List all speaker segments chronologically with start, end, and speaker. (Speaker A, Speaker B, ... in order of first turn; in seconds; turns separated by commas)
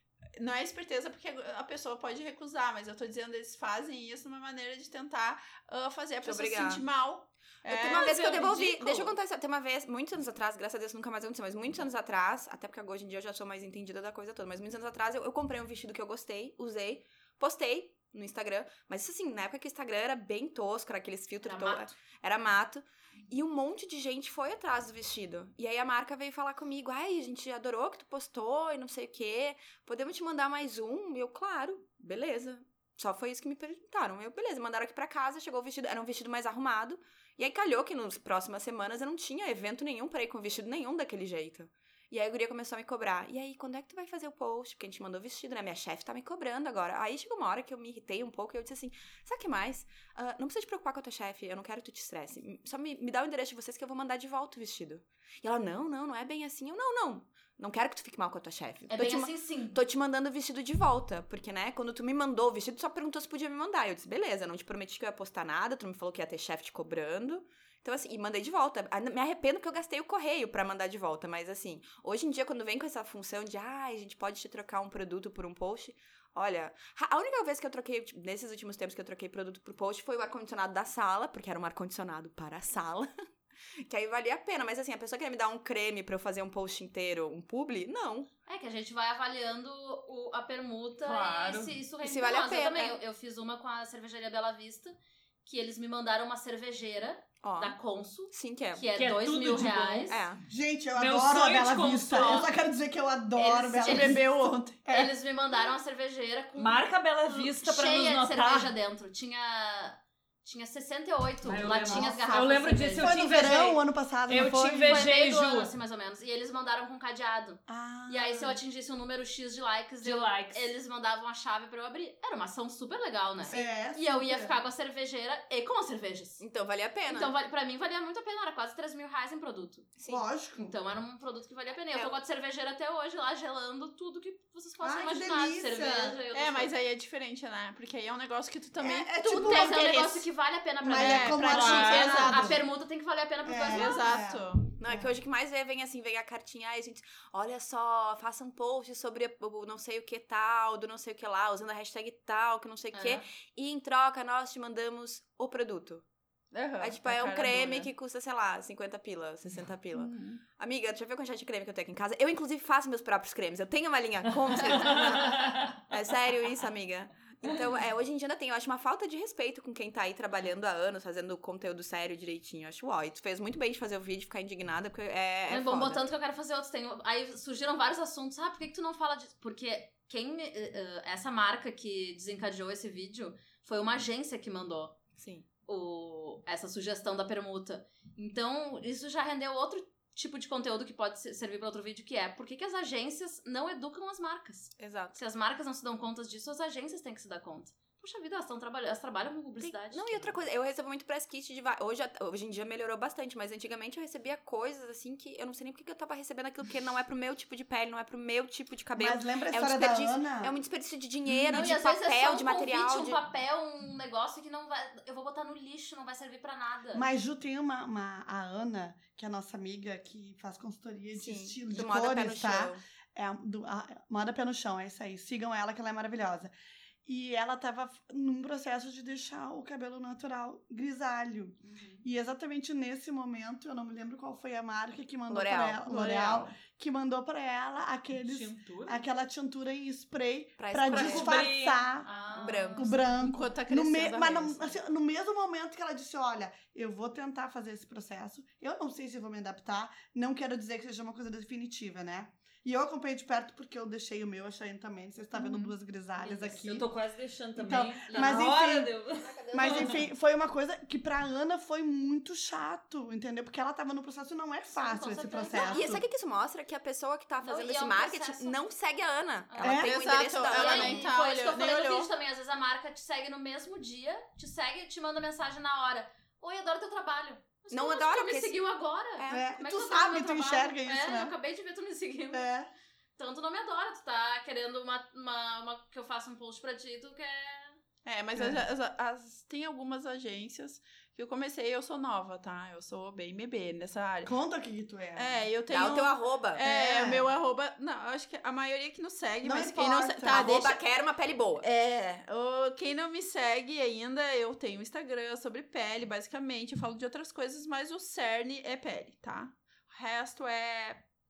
Speaker A: 0.4-9.1, Speaker B: 6.2-6.8, Speaker B: 7.6-83.1, Speaker C: 21.4-22.0, Speaker C: 58.9-59.8, Speaker B: 83.9-88.3, Speaker C: 88.5-100.2, Speaker D: 91.0-91.7, Speaker B: 92.0-93.0, Speaker B: 97.4-97.8, Speaker B: 98.3-98.9, Speaker D: 99.0-100.1, Speaker B: 100.1-100.4, Speaker E: 100.5-104.2, Speaker D: 100.9-102.5, Speaker C: 102.1-102.5, Speaker C: 103.3-104.2, Speaker A: 103.8-104.8, Speaker C: 104.8-113.4, Speaker E: 104.9-105.1, Speaker D: 106.5-108.7, Speaker D: 111.4-115.7, Speaker E: 111.5-112.4, Speaker E: 113.0-115.0, Speaker C: 114.8-126.4, Speaker E: 117.7-118.6, Speaker D: 120.0-120.7, Speaker E: 123.4-124.6, Speaker B: 126.4-127.3, Speaker C: 127.0-130.0, Speaker B: 130.0-130.2, Speaker E: 130.1-130.7, Speaker C: 130.5-136.7, Speaker B: 131.9-132.2, Speaker E: 134.8-136.2, Speaker A: 136.3-140.3, Speaker E: 138.8-139.8, Speaker C: 139.3-144.1, Speaker E: 140.8-142.6, Speaker A: 140.9-142.6, Speaker D: 141.5-142.2, Speaker E: 143.4-145.1, Speaker A: 143.7-144.6, Speaker B: 144.8-156.0, Speaker C: 152.9-153.2, Speaker A: 156.5-157.9, Speaker B: 156.8-176.1, Speaker A: 159.9-160.4, Speaker C: 175.5-185.0, Speaker B: 185.2-185.4, Speaker C: 185.6-200.3, Speaker B: 194.8-195.2, Speaker B: 199.6-213.2, Speaker E: 209.0-210.6, Speaker E: 211.2-211.7, Speaker C: 211.5-217.1, Speaker E: 216.9-226.5, Speaker B: 221.1-222.8, Speaker E: 227.0-242.1, Speaker C: 231.6-232.0, Speaker B: 235.3-236.3, Speaker D: 238.2-239.0, Speaker B: 240.6-241.5, Speaker D: 240.9-241.9, Speaker C: 242.0-243.0, Speaker B: 242.4-242.9, Speaker E: 242.7-256.9, Speaker A: 243.1-244.8, Speaker C: 256.2-256.6, Speaker D: 256.5-260.0, Speaker E: 257.6-258.9, Speaker C: 258.1-258.6, Speaker C: 259.4-259.7, Speaker E: 259.5-266.0, Speaker C: 264.7-265.9, Speaker B: 265.6-271.1, Speaker C: 267.4-268.6, Speaker C: 269.5-282.4, Speaker E: 269.6-269.9, Speaker A: 269.8-272.1, Speaker B: 277.7-278.6, Speaker B: 279.1-279.4, Speaker E: 279.3-281.4, Speaker E: 282.3-282.7, Speaker C: 283.2-287.8, Speaker A: 288.0-294.3, Speaker E: 288.3-288.6, Speaker E: 294.2-295.5, Speaker A: 295.1-300.8, Speaker B: 295.7-296.6, Speaker E: 296.6-297.3, Speaker E: 299.4-300.5, Speaker B: 300.3-301.7, Speaker A: 301.6-311.0